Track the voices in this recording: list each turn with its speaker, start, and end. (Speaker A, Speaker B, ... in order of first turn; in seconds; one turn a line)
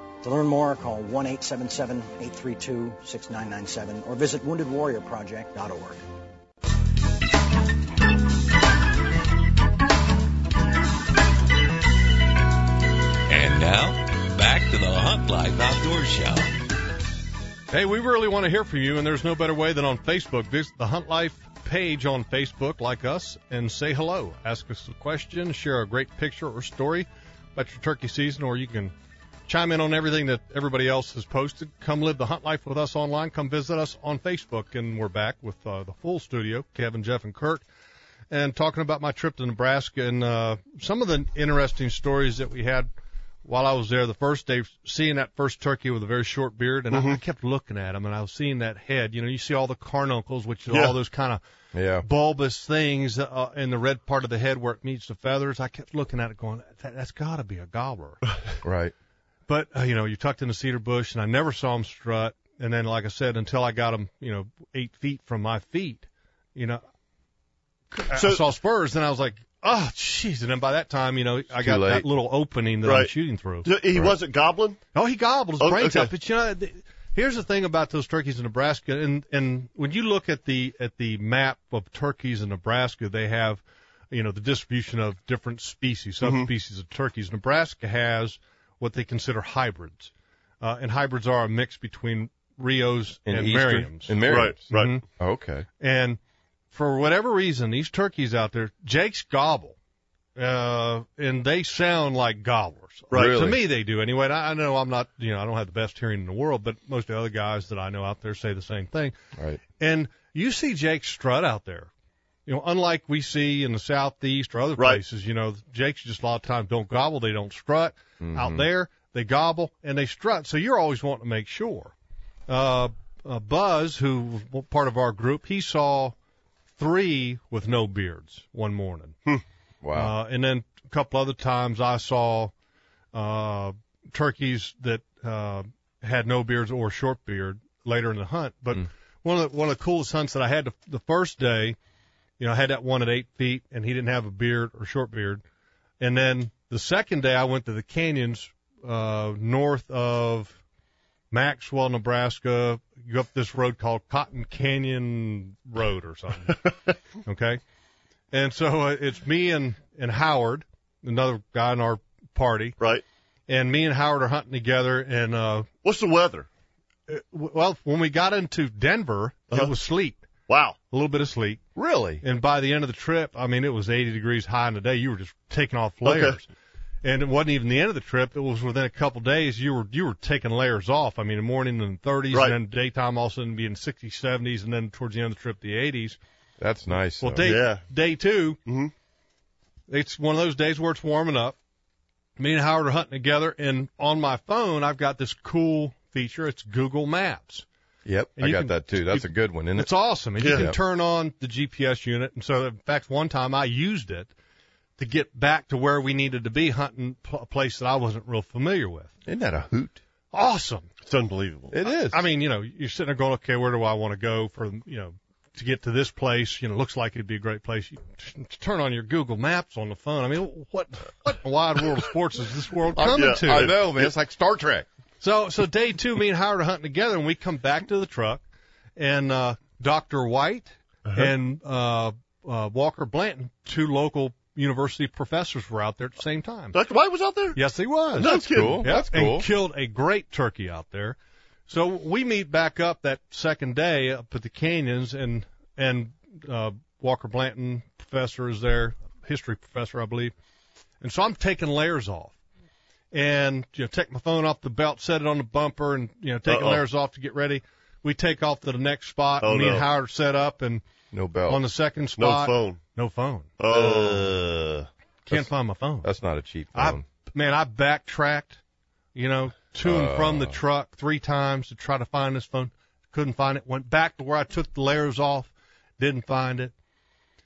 Speaker A: 0.2-6.0
Speaker B: 13.3-16.5
Speaker C: 17.7-28.9
Speaker C: 29.5-37.6
Speaker C: 38.3-42.9
Speaker C: 43.4-51.4
Speaker D: 46.9-47.2
Speaker D: 50.7-51.0
Speaker E: 51.7-52.0
Speaker C: 52.0-58.2
Speaker E: 58.6-58.9
Speaker C: 59.5-66.8
Speaker C: 67.9-73.7
Speaker D: 68.1-68.4
Speaker E: 71.5-72.1
Speaker D: 72.8-73.1
Speaker D: 73.6-74.8
Speaker C: 74.9-95.0
Speaker D: 75.6-76.1
Speaker D: 86.2-86.5
Speaker E: 93.2-95.7
Speaker D: 94.2-95.0
Speaker C: 95.8-96.2
Speaker C: 96.7-99.8
Speaker C: 100.4-109.1
Speaker D: 103.1-103.4
Speaker E: 103.1-103.6
Speaker E: 109.4-109.6
Speaker C: 109.8-111.9
Speaker C: 112.5-121.9
Speaker E: 118.2-118.7
Speaker C: 122.5-126.1
Speaker C: 126.8-129.2
Speaker E: 129.8-130.1
Speaker C: 129.9-132.5
Speaker C: 133.1-141.8
Speaker C: 142.4-145.4
Speaker C: 146.0-150.6
Speaker C: 151.3-156.6
Speaker C: 157.2-157.6
Speaker C: 158.3-162.8
Speaker C: 163.5-165.7
Speaker D: 165.8-166.5
Speaker C: 167.1-170.2
Speaker D: 170.5-170.8
Speaker C: 170.9-171.6
Speaker E: 171.8-172.2
Speaker C: 172.2-176.5
Speaker D: 176.0-176.4
Speaker C: 177.0-186.2
Speaker E: 186.6-187.5
Speaker C: 187.2-188.6
Speaker D: 187.4-187.8
Speaker D: 188.7-188.9
Speaker C: 189.9-191.6
Speaker C: 192.4-197.6
Speaker E: 198.0-200.8
Speaker C: 198.4-204.3
Speaker D: 200.4-200.7
Speaker C: 205.0-209.1
Speaker E: 209.2-210.0
Speaker C: 210.3-210.9
Speaker D: 211.0-211.7
Speaker E: 211.7-212.2
Speaker C: 212.1-223.7
Speaker D: 223.0-224.1
Speaker E: 223.0-224.9
Speaker C: 225.2-228.4
Speaker C: 229.0-236.7
Speaker D: 236.7-237.6
Speaker C: 237.5-241.2
Speaker D: 238.2-238.9
Speaker E: 238.2-239.5
Speaker C: 241.7-250.3
Speaker C: 251.0-252.4
Speaker C: 253.1-260.8
Speaker D: 256.4-256.8
Speaker D: 259.4-259.9
Speaker E: 261.1-261.6
Speaker C: 261.5-263.6
Speaker D: 262.2-262.8
Speaker D: 263.6-264.3
Speaker E: 263.7-265.5
Speaker C: 265.2-266.1
Speaker E: 266.0-267.0
Speaker C: 266.7-268.6
Speaker C: 269.1-276.7
Speaker E: 269.8-270.6